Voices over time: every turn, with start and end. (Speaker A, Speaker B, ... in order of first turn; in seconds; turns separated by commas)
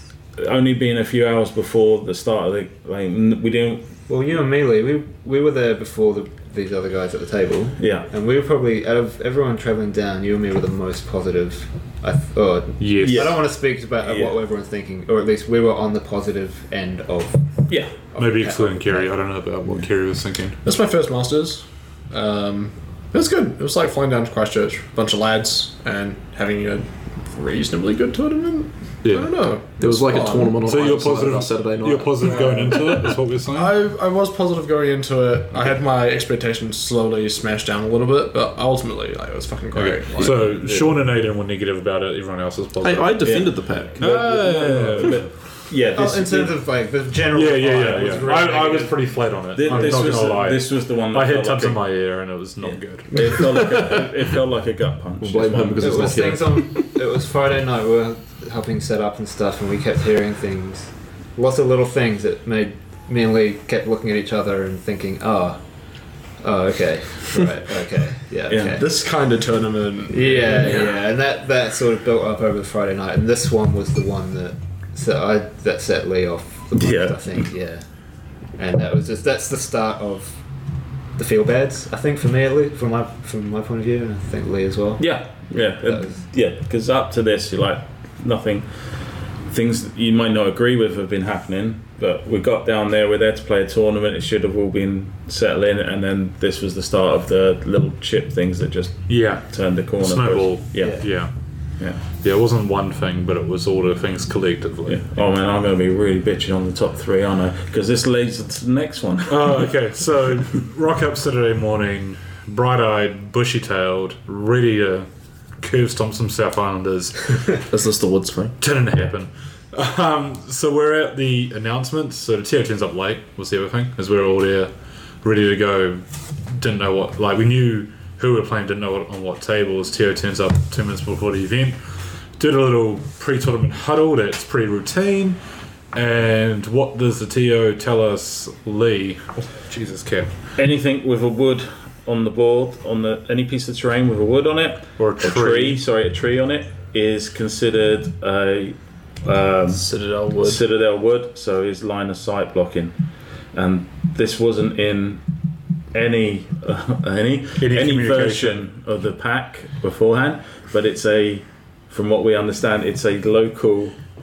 Speaker A: 0.4-3.9, Speaker B: 4.1-19.1, Speaker A: 7.8-8.1, Speaker C: 12.8-13.4, Speaker A: 13.0-13.4, Speaker A: 14.0-14.4, Speaker A: 17.7-18.0, Speaker C: 18.2-20.6, Speaker D: 20.6-30.7, Speaker C: 29.0-29.5, Speaker E: 29.7-32.5, Speaker C: 30.6-33.8, Speaker D: 32.2-40.6, Speaker C: 39.7-45.3, Speaker A: 40.2-40.9, Speaker E: 42.8-44.6, Speaker A: 43.2-46.6, Speaker B: 45.9-50.0, Speaker C: 47.3-53.6, Speaker A: 49.5-56.3, Speaker E: 55.2-56.9, Speaker B: 55.8-65.6, Speaker B: 66.4-68.9, Speaker A: 68.5-68.8, Speaker D: 68.8-71.0, Speaker B: 70.1-77.9, Speaker A: 76.8-77.5, Speaker B: 78.6-80.4, Speaker B: 81.2-86.2, Speaker A: 85.0-101.0, Speaker C: 99.1-101.3, Speaker A: 101.8-102.1, Speaker C: 102.0-105.0, Speaker A: 104.9-109.7, Speaker C: 109.3-115.1, Speaker C: 115.6-117.6, Speaker E: 117.7-118.5, Speaker C: 118.6-124.7, Speaker C: 125.2-131.8, Speaker C: 132.4-135.4, Speaker C: 135.9-140.3, Speaker A: 140.6-153.0, Speaker C: 145.0-145.8, Speaker D: 149.7-150.6, Speaker A: 153.5-155.2, Speaker A: 155.9-164.0, Speaker C: 157.6-158.7